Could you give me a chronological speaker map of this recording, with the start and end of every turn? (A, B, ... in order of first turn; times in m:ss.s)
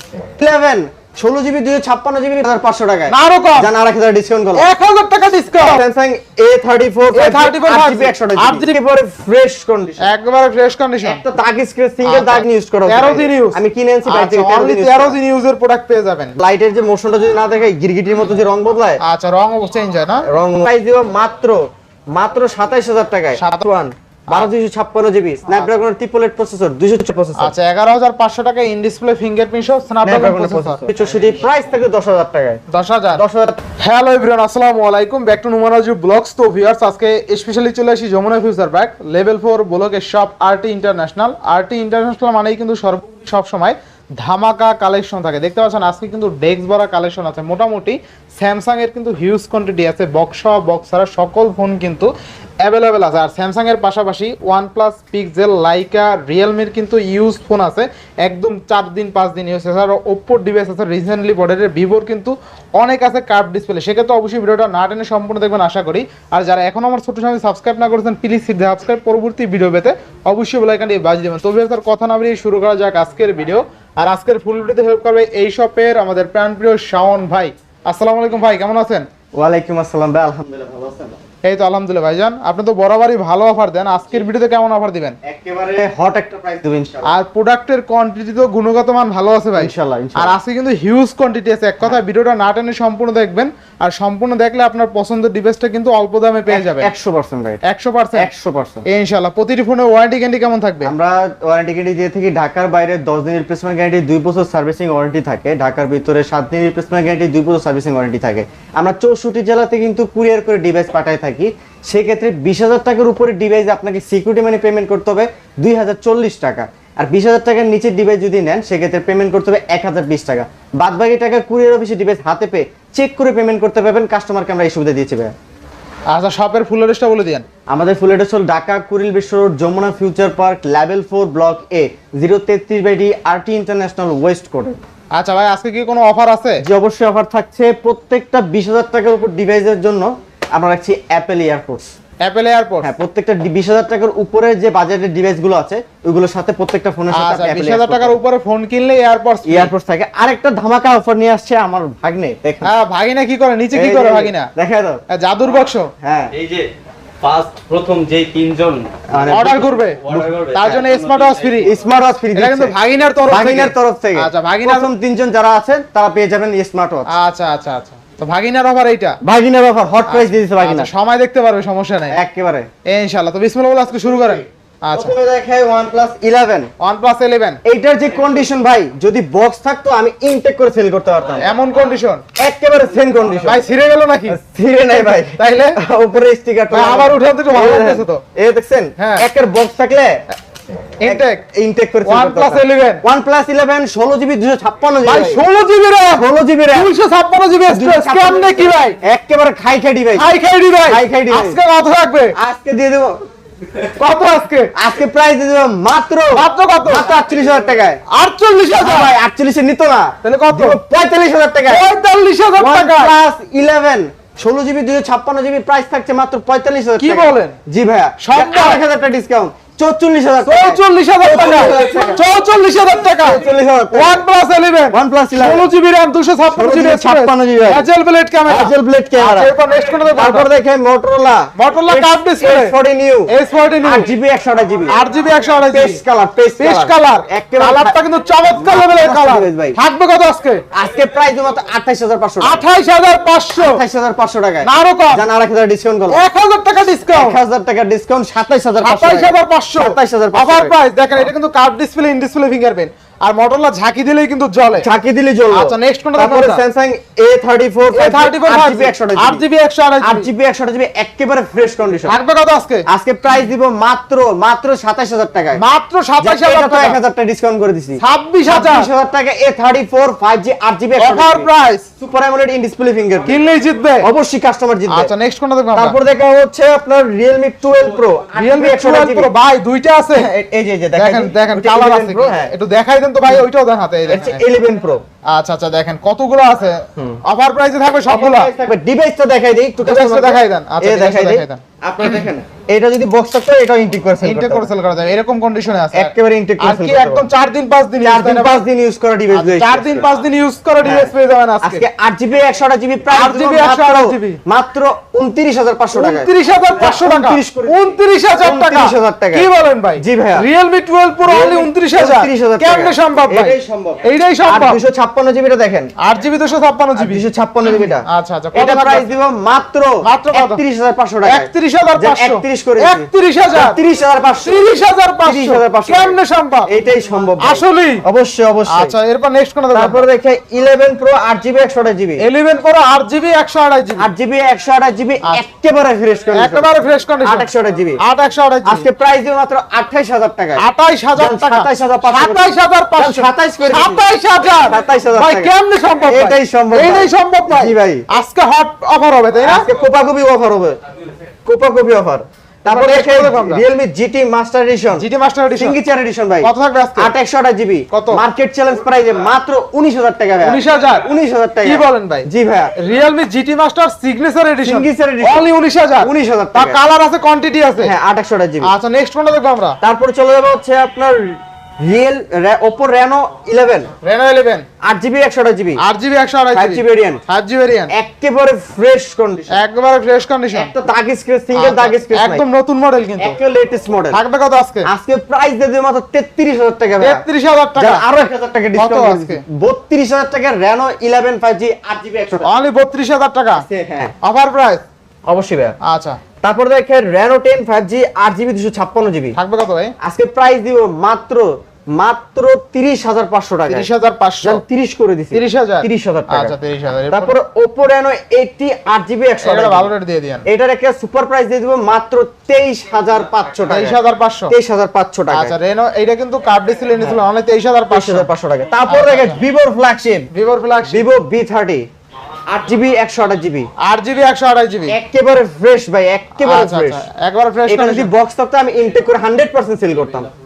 0:00.4-0:04.7 A
0:03.1-0:03.7 B
0:04.6-0:05.8 B
0:05.5-0:10.1 A
0:07.1-0:08.8 B
0:10.0-0:11.2 B
0:11.0-0:15.2 A
0:12.0-0:16.3 B
0:16.4-0:19.0 A
0:19.0-0:20.3 B
0:20.2-0:27.5 A
0:23.4-0:23.7 B
0:27.4-0:30.8 B
0:30.0-0:32.6 A
0:32.7-0:33.2 B
0:33.2-0:33.6 A
0:33.8-0:52.1 B
0:52.6-1:19.1 B
1:19.3-1:21.2 A
1:21.4-1:25.2 B
1:25.2-1:27.1 A
1:27.0-1:36.9 B
1:29.6-1:30.4 A
1:36.5-1:37.6 A
1:37.6-1:38.3 B
1:38.1-1:38.8 A
1:38.8-1:40.9 B
1:40.8-2:05.3 A
2:06.1-2:07.4 B
2:07.7-2:14.8 A
2:15.1-2:16.6 B
2:16.6-2:21.9 A
2:22.2-2:22.9 B
2:22.8-2:28.2 A
2:27.1-2:29.7 B
2:29.4-2:32.7 A
2:32.6-2:34.5 B
2:33.7-2:35.0 A
2:35.1-2:35.9 B
2:36.0-2:36.3 A
2:36.3-2:36.7 C
2:37.2-2:41.9 C
2:39.1-2:40.9 A
2:39.3-2:40.0 B
2:40.5-2:41.7 B
2:41.6-2:47.1 A
2:42.4-2:44.9 B
2:47.1-2:49.2 B
2:49.2-2:50.9 A
2:50.1-2:52.2 B
2:52.1-2:52.7 A
2:52.8-2:55.1 B
2:54.0-2:56.7 A
2:56.8-2:57.6 B
2:57.6-3:01.5 A
3:01.4-3:02.2 B
3:02.4-3:03.6 A
3:03.4-3:04.4 B
3:04.3-3:10.2 A
3:05.2-3:05.8 B
3:06.7-3:08.2 B
3:09.0-3:09.3 B
3:11.0-3:11.4 B
3:11.0-3:15.4 A
3:12.0-3:13.0 B
3:15.0-3:19.0 B
3:16.1-3:16.9 A
3:17.7-3:20.3 A
3:20.2-3:22.4 B
3:20.9-3:21.6 A
3:22.3-3:23.2 A
3:24.0-3:24.7 B
3:24.7-3:28.0 A
3:26.3-3:27.1 B
3:28.1-3:29.1 B
3:28.7-3:31.8 A
3:30.2-3:30.8 B
3:31.7-3:33.1 B
3:32.6-3:42.2 A
3:37.0-3:37.6 B
3:38.2-3:38.8 B
3:40.4-3:50.5 B
3:43.2-3:44.2 A
3:44.9-3:45.7 A
3:46.6-3:47.9 A
3:48.4-3:49.5 A
3:50.1-3:55.0 A
3:51.6-3:52.8 B
3:53.3-3:54.1 B
3:54.9-3:56.0 B
3:55.6-3:58.0 A
3:56.6-4:00.6 B
3:58.5-3:59.8 A
4:00.7-4:02.6 A
4:02.4-4:03.8 B
4:03.6-4:06.2 A
4:04.6-4:05.2 B
4:06.1-4:07.4 B
4:07.1-4:10.8 A
4:08.8-4:14.9 B
4:14.8-4:19.4 A
4:15.5-4:16.6 B
4:17.9-4:20.3 B
4:20.0-4:22.2 A
4:22.1-4:22.9 B
4:22.9-4:25.6 A
4:25.6-4:27.0 B
4:26.2-4:31.5 A
4:28.0-4:28.9 B
4:31.0-4:31.9 B
4:32.0-4:33.4 A
4:33.3-4:34.1 B
4:34.0-4:35.1 A
4:34.9-4:36.0 B
4:35.7-4:39.3 A
4:38.4-4:40.3 B
4:40.1-4:42.5 A
4:40.9-4:44.4 B
4:44.1-4:45.0 A
4:45.3-4:48.5 B
4:48.0-4:54.7 A
4:49.8-4:52.2 B
4:54.2-4:58.6 B
4:55.9-4:57.3 A
4:58.0-5:00.1 A
4:59.3-5:01.8 B
5:00.8-5:10.5 A
5:03.1-5:04.4 B
5:05.9-5:14.8 B
5:11.2-5:15.9 A
5:16.0-5:19.1 B
5:16.9-5:29.0 A
5:20.0-5:20.6 B
5:21.2-5:23.8 B
5:24.4-5:26.7 B
5:27.4-5:28.0 B
5:28.7-5:30.1 B
5:29.7-5:32.2 A
5:32.2-5:34.1 B
5:34.0-5:36.7 A
5:36.3-5:38.9 B
5:37.2-5:38.0 A
5:38.6-5:44.0 A
5:40.6-5:49.7 B
5:44.6-5:48.1 A
5:49.4-5:50.8 A
5:51.4-6:02.7 A
5:52.6-5:53.6 B
5:55.0-5:55.8 B
5:56.4-5:57.1 B
5:57.9-5:58.2 B
6:00.4-6:01.1 B
6:01.6-6:07.9 B
6:04.6-6:06.8 A
6:07.8-6:08.7 A
6:08.6-6:09.8 B
6:09.8-6:13.9 A
6:14.0-6:14.7 B
6:14.8-6:15.8 A
6:15.8-6:17.9 B
6:16.5-6:17.2 A
6:17.9-6:19.6 A
6:19.5-6:20.7 B
6:20.5-6:22.4 A
6:21.6-6:23.4 B
6:23.2-6:24.2 A
6:24.1-6:24.9 B
6:24.8-6:27.2 A
6:27.0-6:28.0 B
6:27.8-6:32.6 A
6:28.8-6:29.4 B
6:32.4-6:33.7 B
6:33.5-6:34.2 A
6:34.2-6:34.8 B
6:35.2-6:35.8 A
6:35.8-6:36.2 B
6:36.4-6:39.4 A
6:39.4-6:39.9 B
6:40.0-6:43.9 A
6:43.7-6:44.6 B
6:44.4-6:46.6 A
6:45.3-6:47.4 B
6:47.1-6:49.9 A
6:49.4-6:50.5 B
6:50.5-6:55.6 A
6:53.7-6:54.6 B
6:55.3-6:58.3 B
6:57.9-7:00.3 A
6:58.9-6:59.4 B
7:00.3-7:01.1 B
7:00.8-7:01.8 A
7:02.5-7:03.7 A
7:03.8-7:05.0 B
7:04.9-7:07.1 A
7:06.4-7:08.1 B
7:07.7-7:10.3 A